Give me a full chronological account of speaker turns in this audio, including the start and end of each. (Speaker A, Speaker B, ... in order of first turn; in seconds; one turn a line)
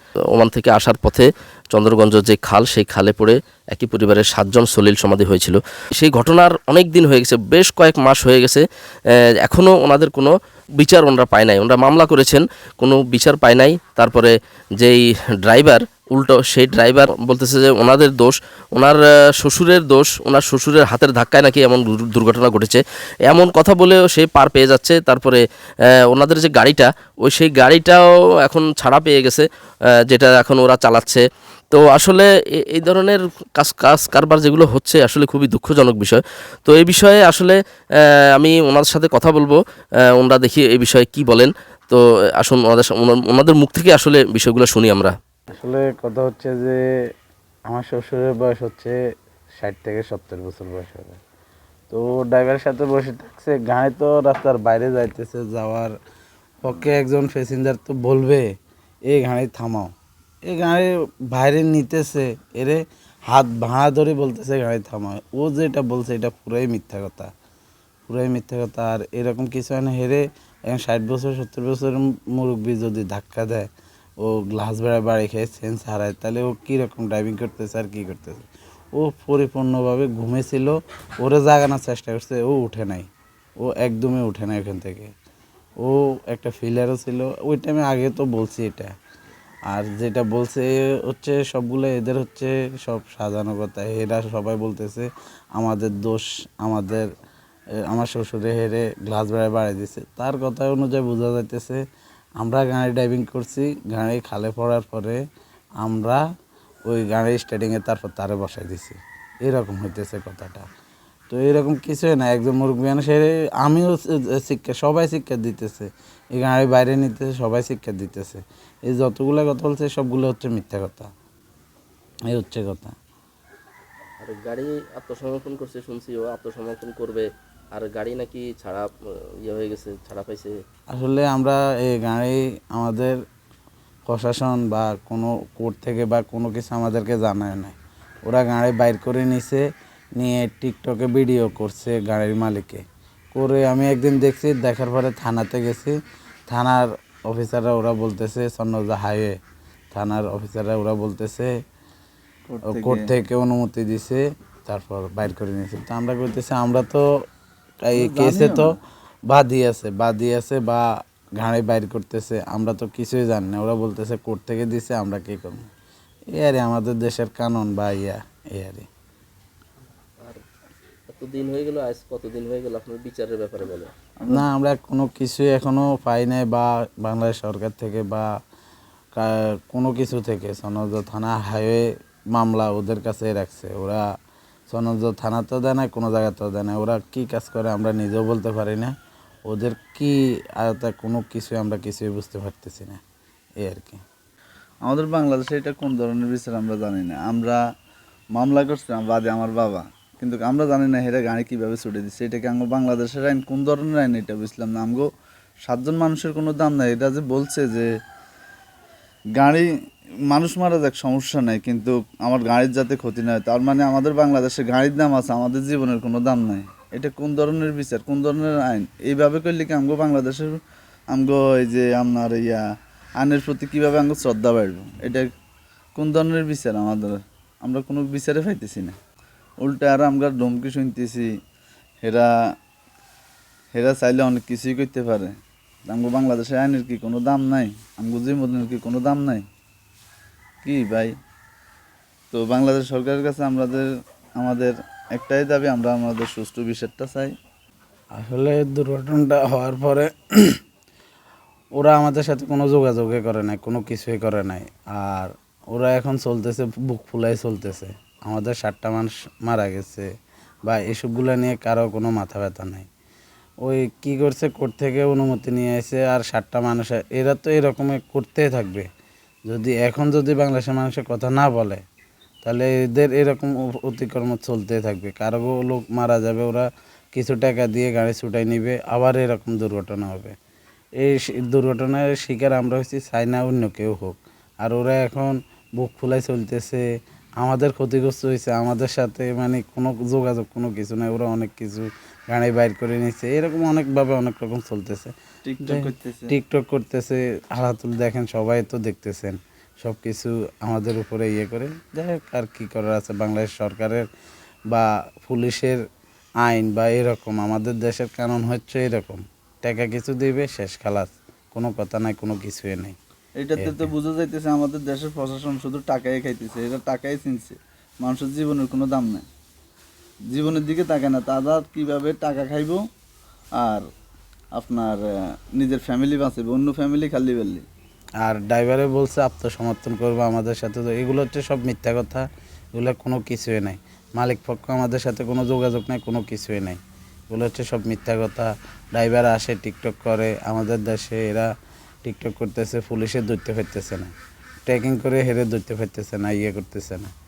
Speaker A: 0.3-8.6
Speaker A: 9.4-25.4
Speaker A: 26.1-29.4
Speaker A: 30.1-37.6
Speaker A: 38.3-39.6
Speaker A: 40.2-45.1
Speaker B: 45.6-46.8
Speaker B: 47.7-49.0
Speaker B: 49.6-51.2
Speaker B: 51.9-55.9
Speaker B: 56.6-58.4
Speaker B: 59.1-59.9
Speaker B: 60.5-67.3
Speaker B: 68.1-83.1
Speaker B: 83.6-85.1
Speaker B: 85.8-88.9
Speaker B: 89.7-97.1
Speaker B: 97.9-101.8
Speaker B: 102.4-105.2
Speaker B: 105.8-106.2
Speaker B: 106.9-110.7
Speaker B: 111.3-121.1
Speaker B: 122.3-122.9
Speaker A: 124.2-128.9
Speaker A: 129.4-130.5
Speaker B: 130.9-133.2
Speaker B: 134.1-139.6
Speaker B: 140.2-145.9
Speaker B: 146.5-149.4
Speaker B: 149.9-151.5
Speaker C: 152.5-153.1
Speaker B: 152.7-157.1
Speaker B: 157.8-158.8
Speaker C: 157.9-158.7
Speaker B: 159.3-165.7
Speaker B: 166.3-168.9
Speaker A: 171.1-173.9
Speaker C: 174.2-174.5
Speaker B: 174.3-178.3
Speaker B: 179.1-184.0
Speaker B: 184.7-188.9
Speaker B: 189.5-193.0
Speaker B: 193.6-194.0
Speaker C: 194.8-197.6
Speaker C: 198.3-205.1
Speaker C: 205.7-207.9
Speaker C: 209.4-209.7
Speaker C: 210.3-220.6
Speaker C: 221.1-222.6
Speaker C: 223.2-225.3
Speaker C: 225.9-228.9
Speaker C: 229.6-231.3
Speaker C: 232.0-232.3
Speaker C: 233.7-235.3
Speaker C: 235.9-239.4
Speaker C: 240.6-241.1
Speaker C: 242.3-243.9
Speaker C: 244.4-247.3
Speaker B: 248.2-250.6
Speaker B: 251.8-260.1
Speaker B: 260.7-262.9
Speaker B: 263.6-268.9
Speaker B: 269.5-271.8
Speaker B: 272.4-280.3
Speaker B: 281.0-286.8
Speaker B: 287.4-295.1
Speaker C: 295.4-296.3
Speaker B: 295.6-304.0
Speaker B: 304.7-305.8
Speaker B: 306.4-313.0
Speaker C: 313.4-319.2
Speaker B: 313.6-313.9
Speaker C: 320.3-322.8
Speaker C: 323.6-323.8
Speaker C: 324.5-325.0
Speaker C: 325.6-327.6
Speaker B: 328.2-341.5
Speaker B: 342.0-344.1
Speaker B: 344.7-347.1